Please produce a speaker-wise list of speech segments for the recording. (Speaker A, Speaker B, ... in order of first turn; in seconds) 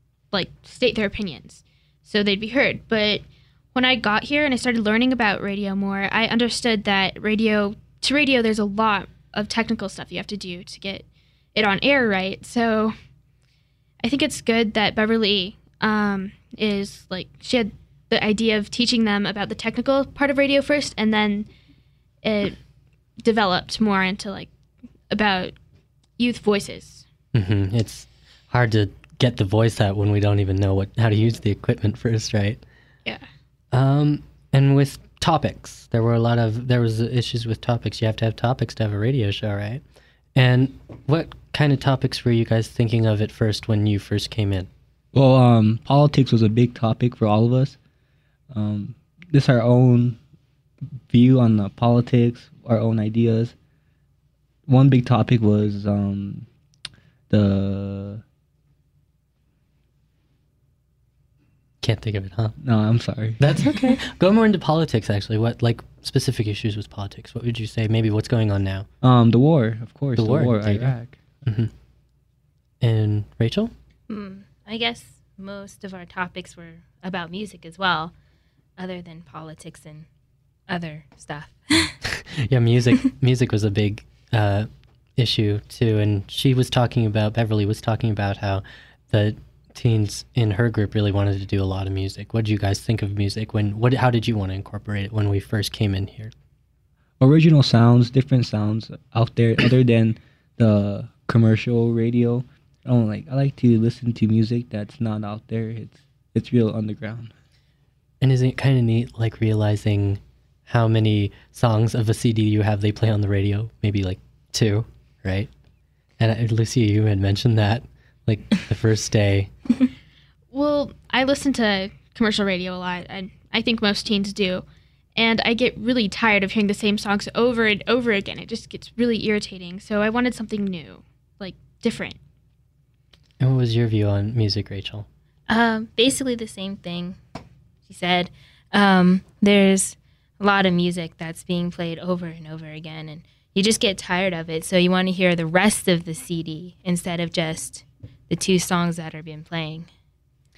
Speaker A: 0.3-12.9, 14.0-21.5, 22.2-22.6, 23.2-24.5, 25.1-25.6, 26.2-27.1, 120.5-132.2
Speaker B: 27.3-32.6, 33.7-39.8, 40.4-44.7, 61.8-62.6, 63.4-68.9, 70.2-71.7, 72.8-73.7, 82.2-96.3, 108.2-115.5, 116.2-119.5, 133.4-135.1
Speaker C: 45.1-47.8, 48.5-50.2, 51.1-53.5, 54.7-56.5, 57.3-58.2, 62.6-63.4, 69.0-71.2, 97.2-107.3
Speaker D: 74.1-78.1, 78.8-80.1, 80.7-82.0, 135.5-137.2, 137.9-149.9